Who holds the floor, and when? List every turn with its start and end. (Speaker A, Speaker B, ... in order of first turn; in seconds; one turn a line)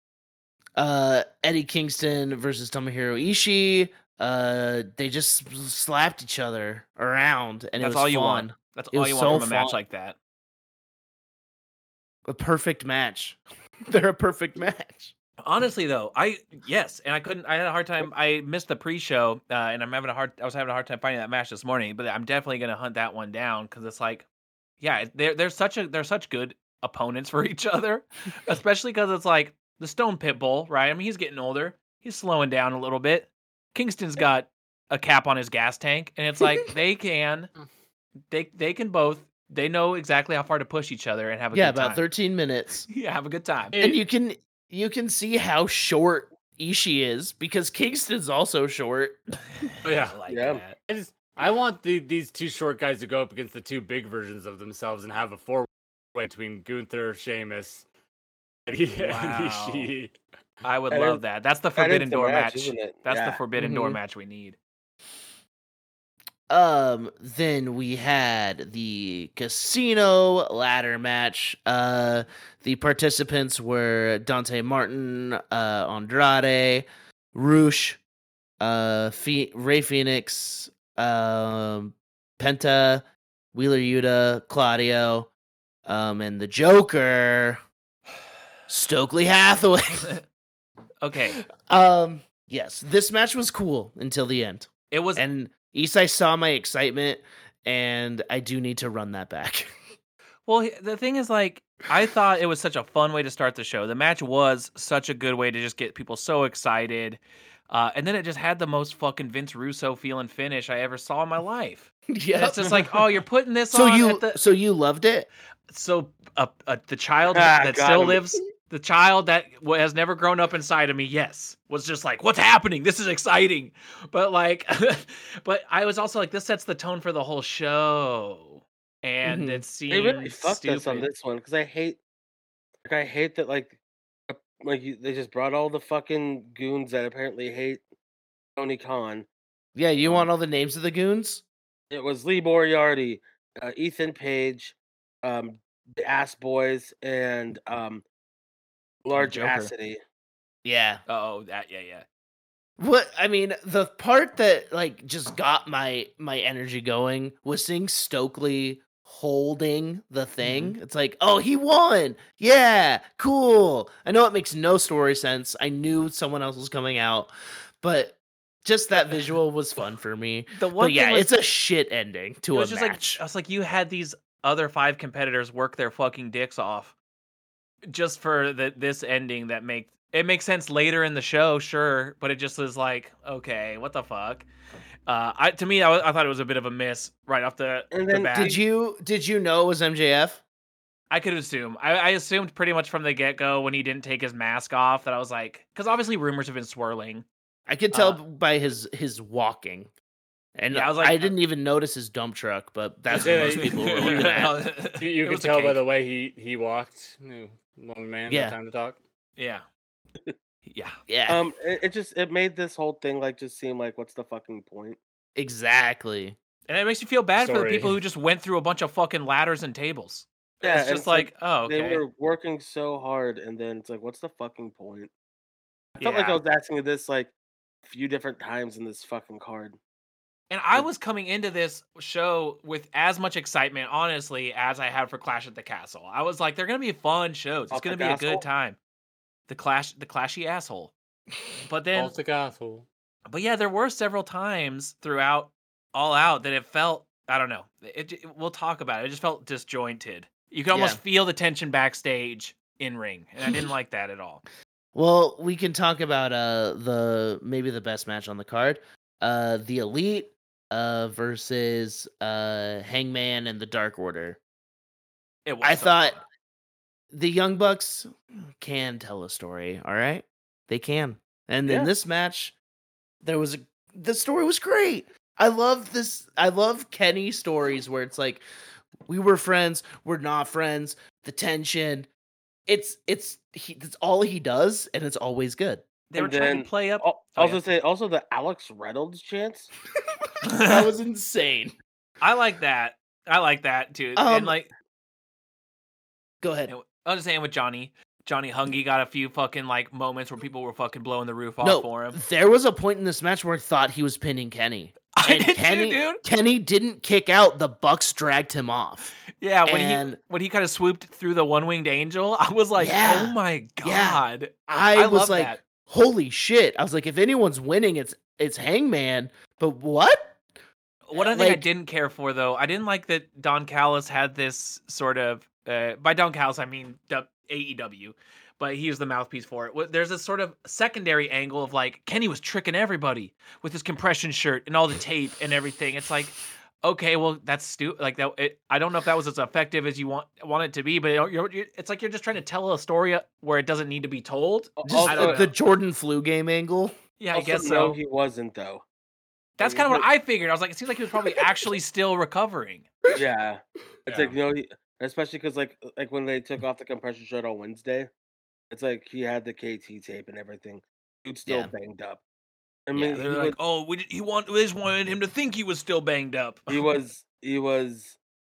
Speaker A: 0.8-9.8
Speaker B: 7.8-10.2
Speaker A: 12.2-15.1
Speaker B: 15.4-24.2
Speaker B: 24.8-37.5
Speaker B: 38.3-42.1
Speaker A: 41.5-42.9
Speaker B: 42.9-43.7
Speaker C: 43.7-44.0
Speaker A: 43.8-49.2
Speaker B: 49.8-50.8
Speaker C: 49.8-50.2
Speaker D: 50.3-50.6
Speaker C: 50.9-57.9
Speaker C: 58.7-60.1
Speaker B: 59.0-59.9
Speaker B: 60.6-64.6
Speaker D: 60.9-61.2
Speaker D: 61.8-63.4
Speaker A: 63.5-64.0
Speaker A: 66.5-78.0
Speaker A: 78.6-85.3
Speaker A: 85.8-87.6
Speaker A: 88.7-90.1
Speaker B: 91.0-91.4
Speaker A: 91.6-99.7
Speaker B: 94.9-95.2
Speaker B: 100.5-107.2
Speaker B: 107.7-114.4
Speaker A: 112.1-113.0
Speaker A: 113.7-115.3
Speaker B: 115.7-131.1
Speaker D: 117.3-118.2
Speaker A: 129.2-129.6
Speaker D: 129.9-132.0
Speaker D: 132.8-133.8
Speaker D: 134.3-137.8
Speaker D: 138.6-139.3
Speaker A: 139.8-141.4
Speaker D: 141.9-148.0
Speaker D: 149.0-150.0
Speaker B: 149.2-149.7
Speaker A: 150.6-151.0
Speaker B: 151.1-152.1
Speaker A: 152.8-167.3
Speaker B: 160.4-160.7
Speaker A: 167.8-173.2
Speaker B: 170.5-171.3
Speaker B: 172.5-176.9
Speaker B: 177.9-184.5
Speaker B: 185.1-188.6
Speaker D: 187.9-188.6
Speaker A: 188.3-190.4
Speaker B: 191.1-197.3
Speaker A: 197.7-199.9
Speaker B: 197.9-198.2
Speaker A: 200.6-204.6
Speaker B: 200.7-201.3
Speaker C: 203.1-209.0
Speaker B: 203.1-205.8
Speaker A: 208.3-208.6
Speaker B: 209.4-209.6
Speaker B: 210.7-210.9
Speaker A: 211.1-211.4
Speaker D: 211.3-215.0
Speaker A: 215.3-216.4
Speaker B: 216.7-222.0
Speaker C: 217.4-217.9
Speaker D: 220.6-225.1
Speaker B: 225.9-226.4
Speaker D: 226.0-227.3
Speaker D: 227.8-229.8
Speaker B: 230.5-238.8
Speaker D: 237.7-238.4
Speaker B: 239.5-240.9
Speaker B: 241.6-242.1
Speaker C: 241.9-242.8
Speaker B: 243.3-254.4
Speaker A: 250.7-251.0
Speaker A: 254.9-264.4
Speaker B: 265.4-266.2
Speaker A: 265.6-266.2
Speaker A: 267.1-268.1
Speaker A: 268.6-272.5
Speaker D: 271.6-271.9
Speaker A: 273.2-278.4
Speaker A: 279.1-282.1
Speaker A: 282.7-285.8
Speaker B: 286.1-287.6
Speaker D: 286.1-289.7
Speaker B: 290.4-290.9
Speaker A: 290.6-291.7
Speaker B: 292.2-294.7
Speaker A: 294.1-294.6
Speaker A: 296.4-296.7
Speaker B: 296.7-302.2
Speaker A: 301.6-309.1
Speaker B: 305.1-306.2
Speaker B: 309.4-315.6
Speaker A: 309.6-310.2
Speaker A: 312.8-320.4
Speaker B: 321.1-345.5
Speaker A: 321.1-321.6
Speaker D: 344.8-345.4
Speaker A: 344.8-346.9
Speaker B: 347.2-348.0
Speaker D: 347.3-348.8
Speaker B: 349.6-352.9
Speaker D: 349.6-350.0
Speaker D: 353.1-358.1
Speaker C: 354.1-354.3
Speaker D: 358.7-362.2
Speaker A: 361.4-361.7
Speaker D: 362.9-363.6
Speaker B: 362.9-366.9
Speaker D: 366.7-368.2